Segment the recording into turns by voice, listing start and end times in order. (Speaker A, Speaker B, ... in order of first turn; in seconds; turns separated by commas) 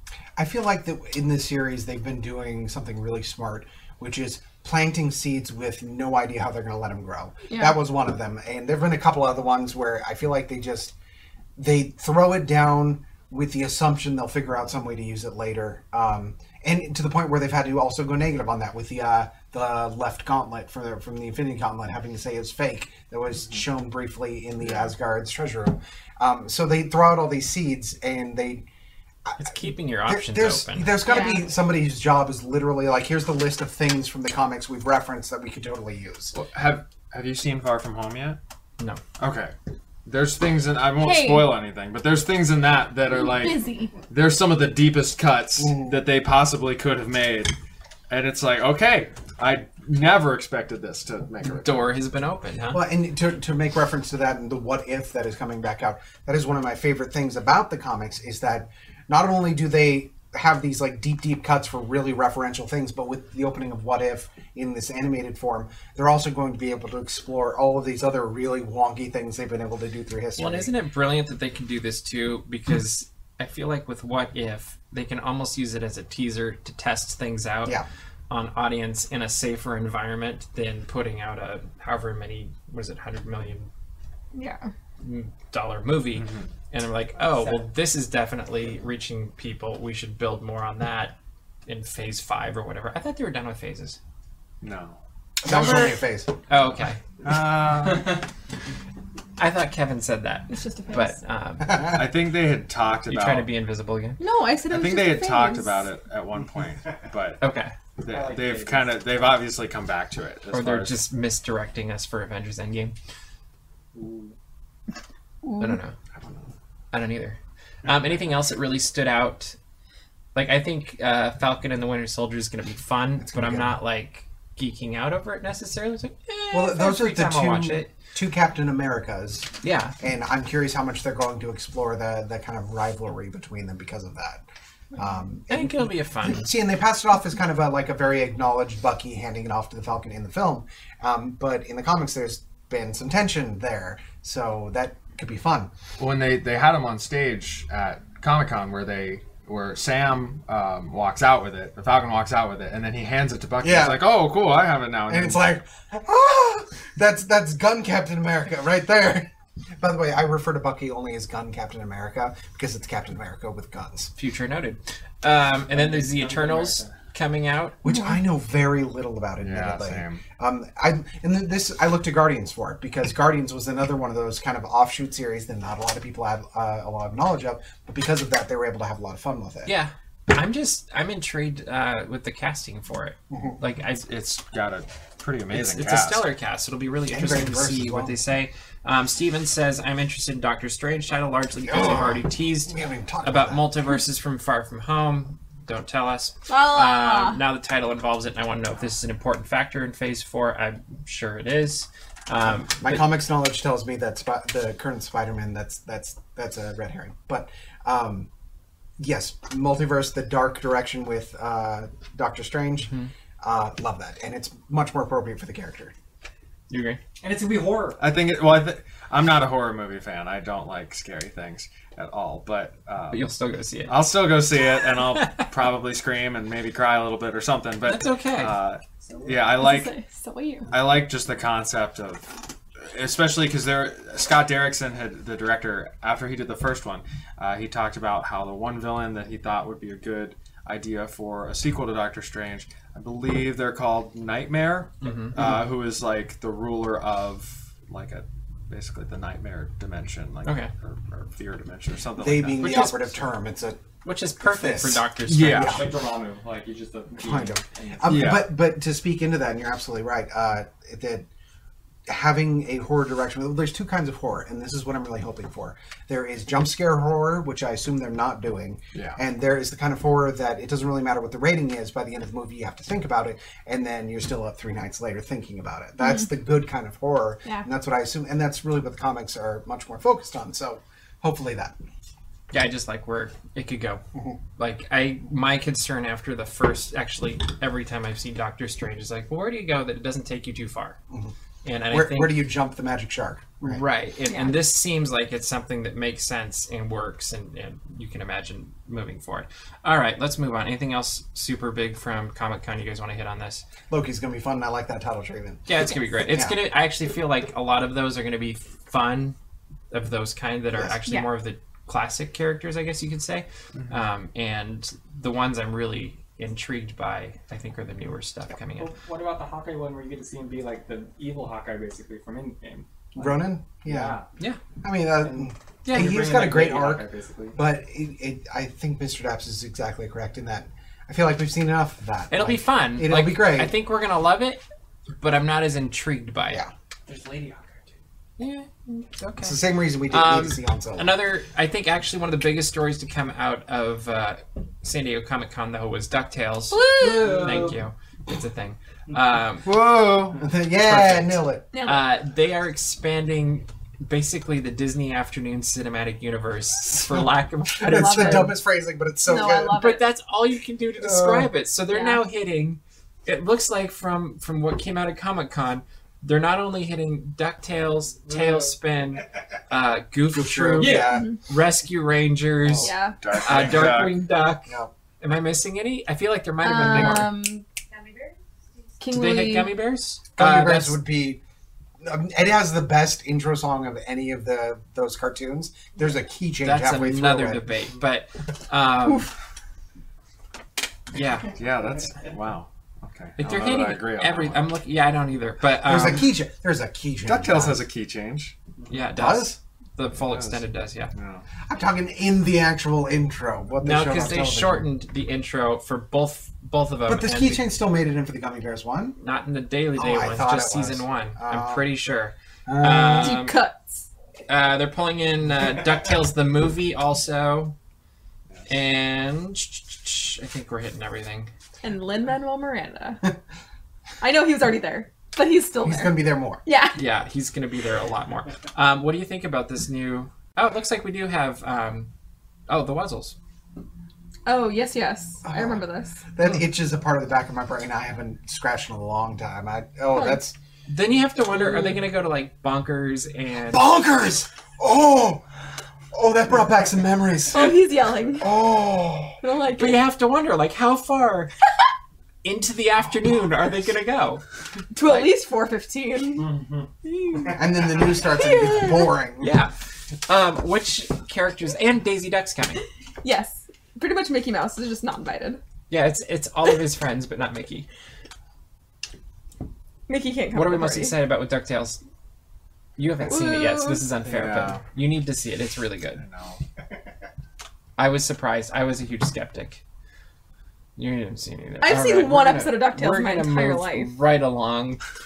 Speaker A: 0.4-10.9, Speaker B: 7.5-7.7, Speaker A: 11.6-28.6, Speaker A: 29.2-29.5, Speaker C: 29.4-31.1, Speaker A: 30.1-36.3, Speaker B: 31.0-31.4, Speaker D: 36.3-38.4, Speaker D: 39.2-39.5, Speaker D: 40.0-47.5, Speaker B: 41.0-41.6, Speaker B: 43.1-43.9, Speaker A: 45.6-46.0, Speaker D: 48.1-51.9, Speaker C: 51.5-52.8, Speaker A: 52.7-70.7, Speaker C: 70.4-83.7, Speaker B: 84.3-84.7, Speaker C: 85.0-91.2, Speaker D: 86.2-86.5, Speaker C: 91.7-94.0, Speaker D: 94.6-95.0, Speaker A: 95.4-96.3, Speaker C: 95.4-97.0, Speaker D: 97.2-98.2, Speaker C: 99.4-102.0, Speaker B: 100.5-101.2, Speaker D: 101.9-103.5, Speaker C: 103.1-104.2, Speaker B: 104.2-105.8, Speaker D: 104.7-107.4, Speaker C: 107.4-107.7, Speaker D: 108.0-111.0, Speaker E: 108.1-109.0, Speaker C: 110.5-112.9, Speaker E: 113.9-114.3, Speaker B: 115.4-115.8, Speaker C: 115.6-115.9, Speaker D: 116.2-116.5, Speaker C: 116.9-119.5, Speaker C: 120.3-127.9, Speaker A: 123.2-123.8, Speaker A: 126.5-134.4, Speaker C: 129.6-129.9, Speaker A: 134.9-145.7, Speaker C: 135.5-136.5, Speaker D: 146.0-155.4, Speaker A: 153.6-154.2, Speaker A: 155.1-164.1, Speaker C: 164.2-167.8, Speaker E: 165.7-167.0, Speaker A: 167.8-179.7, Speaker B: 167.8-168.2, Speaker D: 169.4-170.2, Speaker C: 179.7-184.1, Speaker A: 183.3-183.6, Speaker D: 184.0-186.3, Speaker C: 185.5-203.1, Speaker A: 187.1-188.1, Speaker A: 191.7-193.7, Speaker B: 196.5-197.4, Speaker A: 202.5-208.3, Speaker A: 209.0-215.9, Speaker C: 216.7-217.0, Speaker E: 217.2-218.0, Speaker D: 218.0-223.3, Speaker C: 223.1-224.0, Speaker D: 223.9-229.9, Speaker C: 225.2-225.4, Speaker C: 227.8-228.5, Speaker E: 229.0-229.5, Speaker B: 229.6-230.7, Speaker D: 230.7-253.0, Speaker C: 245.0-245.4, Speaker C: 250.4-250.7, Speaker A: 252.2-253.8, Speaker C: 252.6-253.1, Speaker C: 254.0-255.9, Speaker A: 254.4-255.9, Speaker D: 255.3-255.9, Speaker E: 255.7-258.2, Speaker A: 257.2-261.3, Speaker D: 258.1-258.5, Speaker A: 262.1-281.8, Speaker D: 268.9-269.2, Speaker B: 276.0-276.3, Speaker C: 282.5-284.0, Speaker C: 284.6-291.0, Speaker C: 291.6-292.4, Speaker A: 291.9-293.8, Speaker C: 293.6-303.6, Speaker B: 294.3-294.6, Speaker A: 303.9-306.6, Speaker C: 305.7-309.4, Speaker C: 309.9-318.9, Speaker B: 311.0-311.3, Speaker E: 318.8-324.3, Speaker A: 323.1-324.2, Speaker A: 324.8-333.8, Speaker C: 325.8-326.5, Speaker E: 325.9-327.6, Speaker C: 332.3-334.6, Speaker C: 335.2-336.6, Speaker E: 337.1-338.0, Speaker C: 338.4-349.7, Speaker A: 339.4-341.2, Speaker B: 346.7-347.3, Speaker E: 347.0-347.7, Speaker D: 349.6-350.3, Speaker A: 350.2-351.6, Speaker C: 350.8-358.5, Speaker B: 351.7-352.1, Speaker A: 357.1-359.9, Speaker B: 357.9-358.5, Speaker B: 359.2-360.1, Speaker C: 359.7-377.4, Speaker A: 361.0-361.5, Speaker B: 361.9-362.2, Speaker A: 370.3-371.3, Speaker B: 370.8-371.4, Speaker D: 372.8-374.2, Speaker B: 372.8-373.2, Speaker B: 376.6-377.6, Speaker B: 379.0-379.8, Speaker C: 379.1-381.0, Speaker A: 380.4-381.4, Speaker A: 382.0-387.6, Speaker C: 386.6-389.3, Speaker C: 391.1-391.5, Speaker D: 391.5-394.6, Speaker C: 393.4-396.3, Speaker A: 395.8-397.8, Speaker D: 397.2-398.5, Speaker C: 398.9-401.1, Speaker A: 399.1-399.6, Speaker D: 401.1-401.4, Speaker A: 401.6-404.9, Speaker C: 403.8-407.6, Speaker A: 407.1-409.2, Speaker C: 409.2-413.6, Speaker A: 409.9-411.9, Speaker A: 412.6-413.4, Speaker B: 413.2-414.1, Speaker C: 414.5-417.7, Speaker C: 418.6-421.5, Speaker B: 421.8-423.3, Speaker B: 424.2-427.0, Speaker A: 425.8-426.6, Speaker C: 426.9-432.1, Speaker C: 432.7-433.4, Speaker B: 434.4-436.2, Speaker A: 435.4-435.8, Speaker A: 436.3-440.5, Speaker B: 440.1-440.4, Speaker C: 440.9-443.9, Speaker A: 443.7-449.4, Speaker B: 447.5-448.5, Speaker B: 449.4-450.0, Speaker C: 449.7-451.5, Speaker C: 452.4-454.4, Speaker B: 454.9-456.5, Speaker C: 455.0-455.4, Speaker E: 456.4-456.9, Speaker B: 457.0-459.1, Speaker A: 457.5-459.5, Speaker C: 459.4-462.8, Speaker B: 463.2-465.6, Speaker C: 465.9-467.9, Speaker B: 470.1-471.1, Speaker C: 470.5-472.0, Speaker C: 473.0-476.2, Speaker B: 473.3-474.0, Speaker D: 474.2-474.8, Speaker D: 476.2-476.6, Speaker C: 478.0-479.8, Speaker C: 480.9-485.0, Speaker B: 481.8-484.1